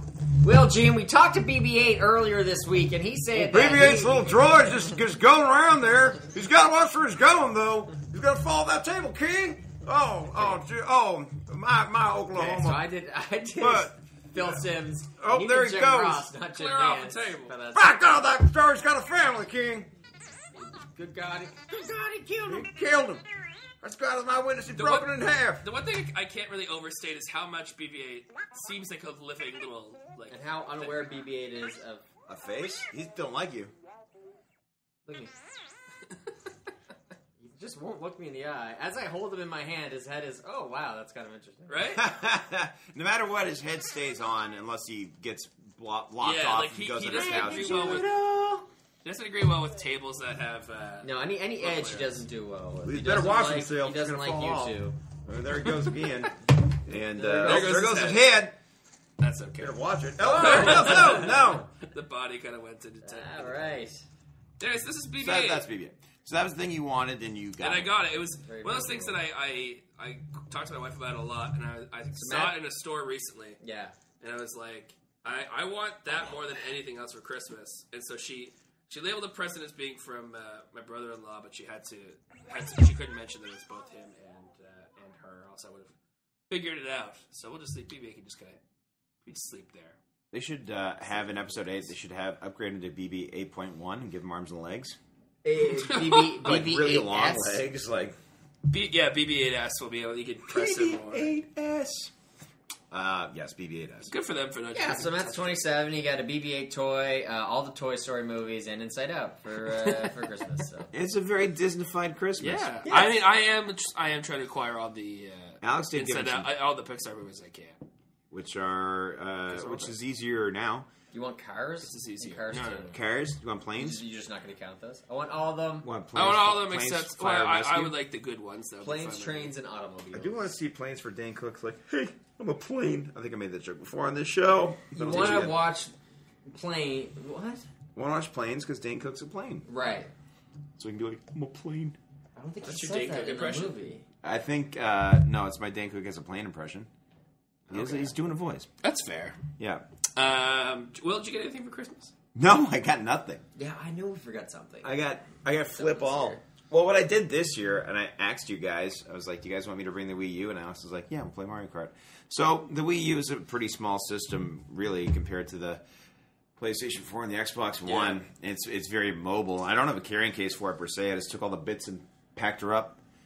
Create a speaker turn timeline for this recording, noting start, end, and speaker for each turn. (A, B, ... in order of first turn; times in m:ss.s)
0:00.4-0:04.7 A
0:03.3-0:12.9 B
0:12.3-0:17.9 A
0:13.6-0:14.6 B
0:15.2-0:16.3 B
0:16.6-0:17.5 C
0:17.7-0:19.9 B
0:20.8-0:22.7 A
0:22.5-0:23.2 B
0:23.8-0:25.6 B
0:24.7-0:31.3 C
0:30.3-0:32.0 A
0:32.3-0:33.7 B
0:35.1-0:35.4 A
0:37.4-0:42.0 A
0:41.7-0:42.0 C
0:42.0-0:48.6 B
0:46.2-0:48.1 C
0:47.2-0:48.1 A
0:49.0-0:52.2 C
0:51.0-0:55.0 A
0:52.8-0:58.6 B
0:57.2-0:57.8 A
0:57.4-0:58.3 C
0:59.2-1:03.8 C
0:59.6-1:01.7 B
1:00.2-1:01.6 A
1:03.0-1:04.0 A
1:04.6-1:05.6 C
1:05.2-1:08.0 B
1:07.6-1:13.6 C
1:08.5-1:09.2 A
1:12.2-1:12.6 A
1:13.6-1:14.0 A
1:14.2-1:25.9 C
1:26.5-1:28.6 C
1:29.2-1:30.0 C
1:30.3-1:35.0 B
1:35.4-1:37.6 A
1:35.7-1:36.5 C
1:36.4-1:38.2 B
1:38.7-1:41.3 C
1:40.5-1:42.1 B
1:42.9-1:44.1 B
1:44.1-1:45.6 C
1:44.7-1:50.9 A
1:49.8-1:50.1 C
1:50.9-1:52.7 B
1:52.4-1:57.8 C
1:52.8-1:53.2 A
1:55.6-1:56.5 B
1:58.3-2:00.9 B
1:59.5-1:59.9 C
2:01.1-2:03.0 A
2:01.8-2:02.9 C
2:02.9-2:04.0 B
2:03.8-2:05.9 A
2:05.8-2:08.0 B
2:06.2-2:09.5 C
2:08.8-2:10.4 A
2:10.1-2:15.6 B
2:14.9-2:15.9 A
2:16.5-2:17.7 A
2:18.0-2:19.7 B
2:19.7-2:20.1 A
2:20.8-2:22.0 B
2:22.4-2:24.0 A
2:22.6-2:23.8 C
2:24.2-2:26.9 B
2:27.7-2:28.7 B
2:27.7-2:28.1 A
2:28.8-2:29.4 C
2:29.6-2:29.8 B
2:30.2-2:32.1 C
2:32.4-2:33.4 B
2:33.6-2:35.0 A
2:34.8-2:45.8 B
2:35.7-2:36.4 A
2:46.6-2:53.0 B
2:47.9-2:48.2 C